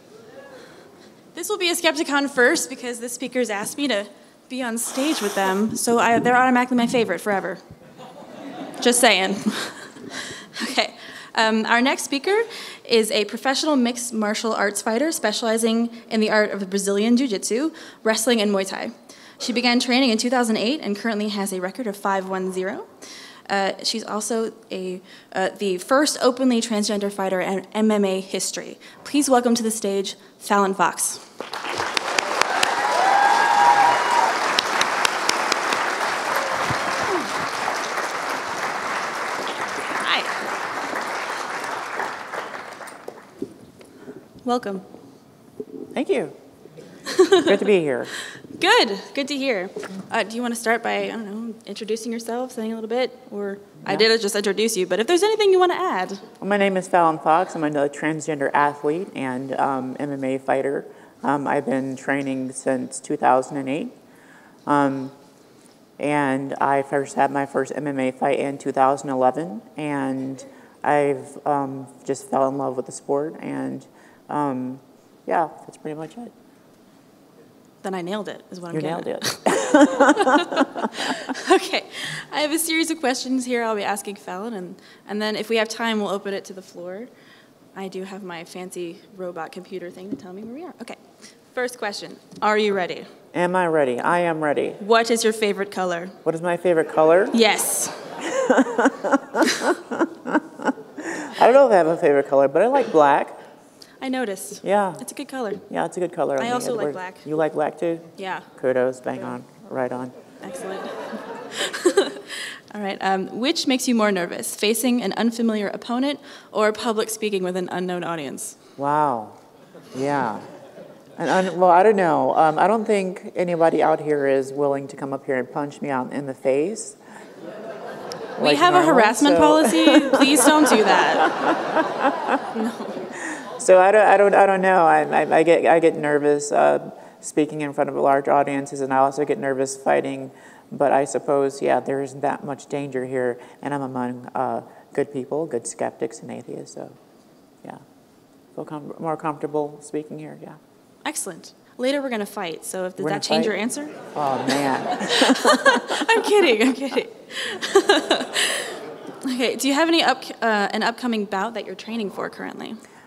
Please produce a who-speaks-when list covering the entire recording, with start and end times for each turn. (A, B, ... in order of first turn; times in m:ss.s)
0:01.3-0:07.6 A
0:08.8-0:22.9 A
0:23.4-0:31.3 A
0:39.9-0:40.3 A
0:44.4-0:44.8 A
0:45.9-0:46.4 B
0:47.1-0:47.4 A
0:47.3-0:48.1 B
0:48.4-0:56.2 A
0:56.4-1:03.9 B
1:04.6-1:05.2 B
1:06.0-1:16.3 B
1:17.8-1:27.1 A
1:18.7-1:20.9 B
1:27.7-1:31.0 A
1:31.5-1:33.1 A
1:33.3-1:34.8 B
1:34.8-1:36.2 A
1:36.2-1:37.3 B
1:37.3-1:38.1 A
1:38.2-1:43.4 B
1:44.0-1:45.6 A
1:44.6-1:45.0 B
1:45.7-1:50.1 B
1:46.4-1:47.2 A
1:48.2-1:48.5 A
1:50.4-1:58.6 A
1:58.8-1:59.4 B
1:59.9-2:00.5 B
2:01.2-2:07.0 B
2:08.4-2:12.4 B
2:08.4-2:11.3 A
2:12.5-2:13.0 A
2:13.2-2:27.0 B
2:28.5-2:30.6 B
2:31.0-2:34.0 A
2:33.0-2:33.5 B
2:34.1-2:36.0 B
2:35.0-2:42.8 A